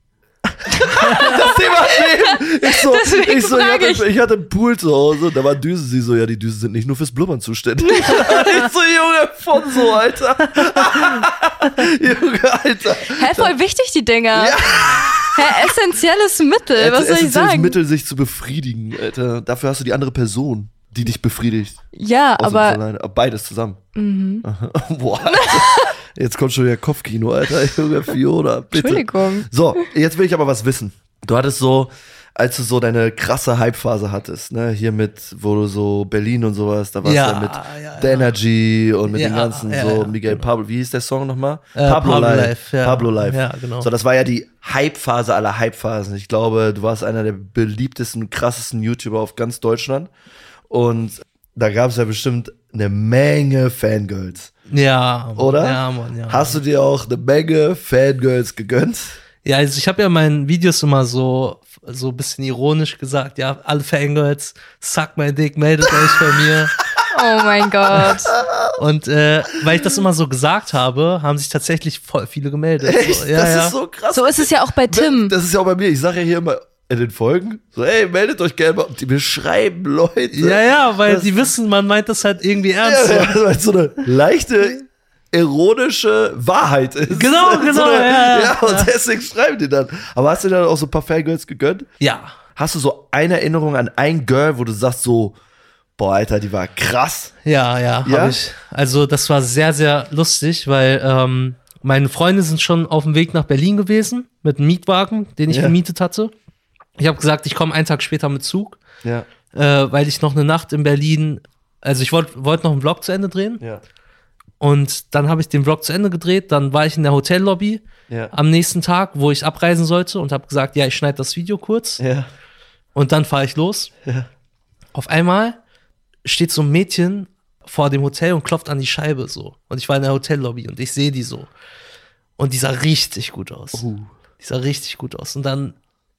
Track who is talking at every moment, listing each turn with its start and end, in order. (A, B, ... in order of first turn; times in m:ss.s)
0:00.5-0:13.5 A
0:00.8-0:04.1 B
0:07.8-0:08.7 B
0:10.6-0:11.0 C
0:13.1-0:14.6 B
0:14.3-0:15.7 A
0:15.3-0:17.8 B
0:16.7-0:21.8 A
0:21.9-0:22.8 B
0:22.4-0:23.8 A
0:24.0-0:24.4 B
0:24.4-0:50.1 A
0:25.3-0:25.9 B
0:28.7-0:29.5 B
0:37.0-0:38.3 C
0:39.1-0:40.5 C
0:41.7-0:43.9 C
0:50.7-0:54.5 A
0:54.7-0:56.6 C
0:55.4-0:59.2 A
0:59.4-1:06.7 C
1:07.1-1:08.3 B
1:07.9-1:08.8 A
1:08.8-1:13.7 C
1:12.8-1:21.5 A
1:14.1-1:15.3 B
1:20.3-1:23.4 C
1:22.8-1:31.9 A
1:27.1-1:28.9 C
1:32.0-1:32.3 C
1:32.6-1:35.4 A
1:36.0-1:37.3 A
1:37.4-1:46.3 C
1:38.0-1:38.4 A
1:45.5-1:45.8 A
1:47.0-1:48.8 C
1:49.5-1:53.6 C
1:54.6-2:02.0 C
2:02.0-2:02.3 A
2:02.9-2:03.9 C
2:04.9-2:05.6 C
2:06.2-2:11.5 C
2:12.4-2:13.8 C
2:13.7-2:14.1 A
2:14.4-2:15.7 C